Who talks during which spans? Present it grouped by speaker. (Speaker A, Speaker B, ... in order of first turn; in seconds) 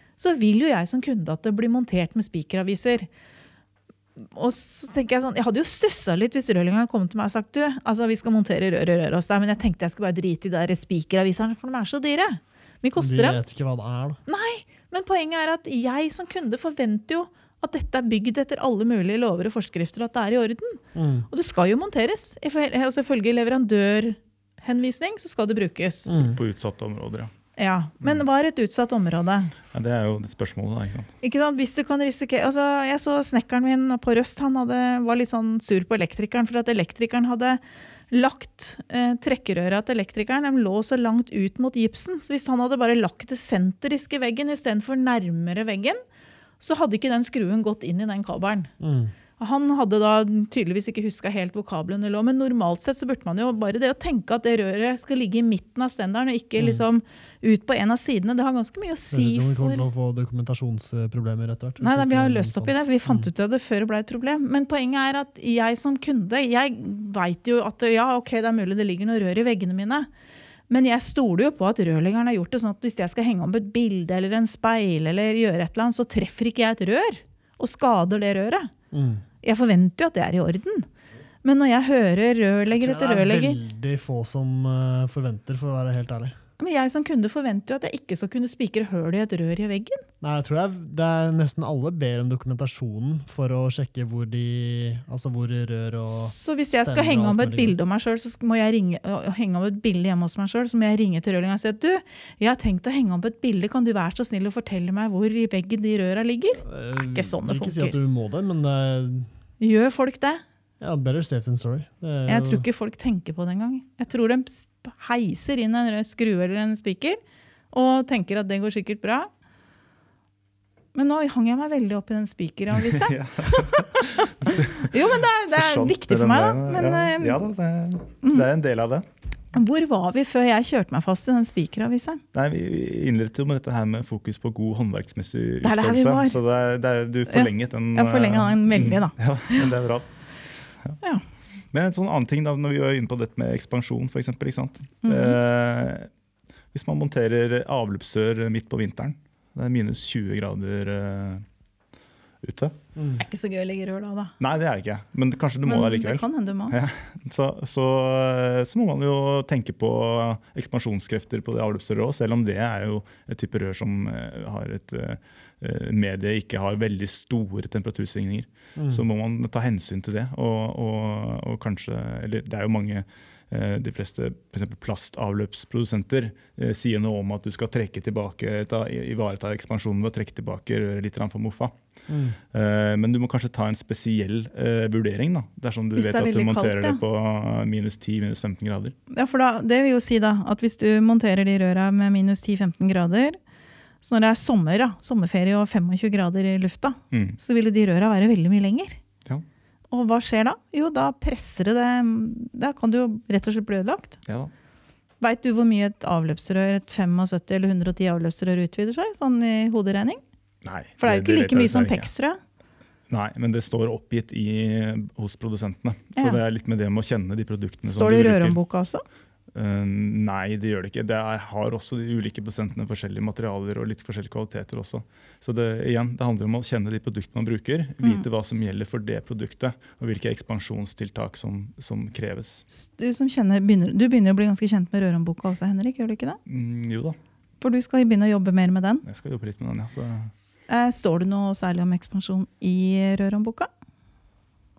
Speaker A: 0.2-3.1, 4.2-13.4, 14.3-26.2, 27.6-29.5, 31.2-46.0, 46.6-48.7, 49.4-59.8, 61.8-70.1, 70.7-78.7, 79.4-80.9, 81.4-83.6, 86.6-90.0, 96.1-107.9, 109.6-110.4, 112.3-117.2, 117.7-119.3, 120.9-127.5, 129.5-132.2, 135.6-136.4, 137.3-139.7, 145.0-145.4, 153.2-154.3, 155.7-156.8, 185.9-187.0, 189.1-193.4, 194.0-199.0, 199.9-204.2, 205.2-210.2, 211.0-212.4, 217.9-219.0, 232.7-236.4, 237.6-239.0, 240.7-243.7
Speaker B: 13.0-14.2, 20.9-21.3, 26.1-26.4, 48.8-49.1, 56.6-56.8, 59.1-63.3, 78.9-79.2, 82.7-86.4, 90.2-97.8, 106.6-109.3, 110.8-112.7, 152.9-153.2, 168.8-169.0, 182.1-182.4
Speaker C: 26.3-27.3, 29.7-31.1, 122.7-129.1, 132.3-140.1, 141.7-146.1, 146.7-151.4, 152.4-152.8, 154.4-181.8, 182.5-188.9, 197.1-197.4, 204.2-204.5, 210.6-212.1, 213.1-218.6, 219.5-232.6, 236.4-237.2, 239.0-240.3